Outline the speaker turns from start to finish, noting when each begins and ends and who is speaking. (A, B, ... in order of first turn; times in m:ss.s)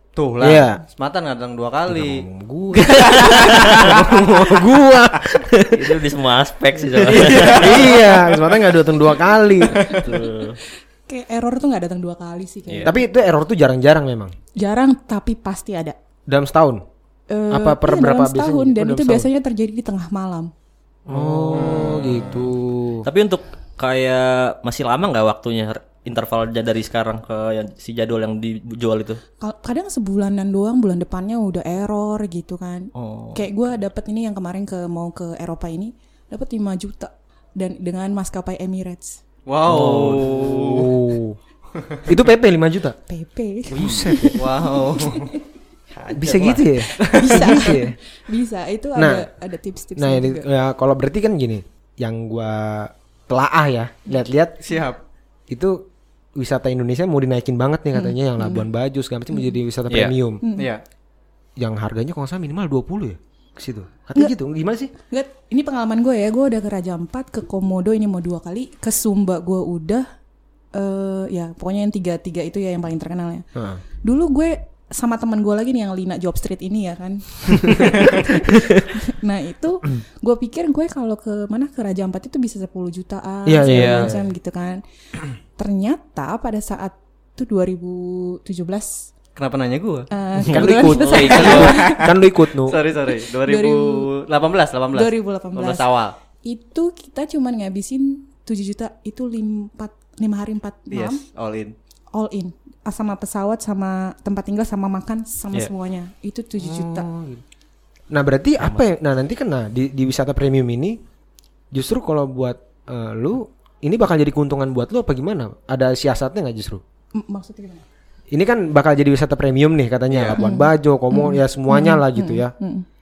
0:00.2-0:04.3 A
0:00.4-0:00.8 B
0:01.9-0:06.0 B
0:05.7-0:07.9 C
0:06.9-0:09.9 B
0:07.1-0:08.4 A
0:09.7-0:10.1 A
0:09.8-0:10.6 C
0:11.1-0:13.0 D
0:12.7-0:13.0 C
0:12.8-0:14.3 B
0:14.6-0:16.0 D
0:16.3-0:16.8 B
0:17.3-0:20.5 D
0:17.5-0:19.3 B
0:21.1-0:22.5 C
0:21.1-0:23.0 B
0:23.0-0:29.2 C
0:29.4-0:39.2 D
0:32.9-0:33.4 C
0:39.5-0:40.9 A
0:39.7-0:40.4 C
0:39.7-0:41.4 B
0:42.0-0:43.0 B
0:43.1-0:45.4 D
0:43.7-0:44.5 B
0:44.3-0:45.3 A
0:46.0-0:47.5 A
0:46.1-0:48.0 B
0:46.9-0:50.4 D
0:49.0-0:49.3 B
0:50.0-0:54.5 B
0:54.6-0:55.0 A
0:55.5-0:55.8 B
0:56.4-1:00.4 B
0:57.9-0:58.7 D
0:59.9-1:00.1 C
1:00.4-1:00.7 D
1:00.6-1:00.8 A
1:01.6-1:04.9 B
1:05.1-1:10.0 D
1:10.7-1:13.4 D
1:13.6-1:13.8 B
1:14.0-1:24.8 D
1:17.7-1:18.0 B
1:23.4-1:24.2 B
1:23.6-1:24.1 C
1:25.6-1:29.1 D
1:29.4-1:30.1 A
1:30.1-1:32.1 D
1:30.4-1:31.8 C
1:30.4-1:32.8 B
1:31.3-1:36.1 A
1:33.4-1:34.1 D
1:34.9-1:35.8 D
1:36.4-1:41.2 D
1:40.9-1:41.7 A
1:42.1-1:47.1 D
1:46.6-1:47.4 B
1:48.1-1:51.0 B
1:51.7-1:56.8 B
1:57.1-1:57.8 D
1:58.3-2:02.5 B
2:00.1-2:00.4 A
2:00.4-2:02.8 D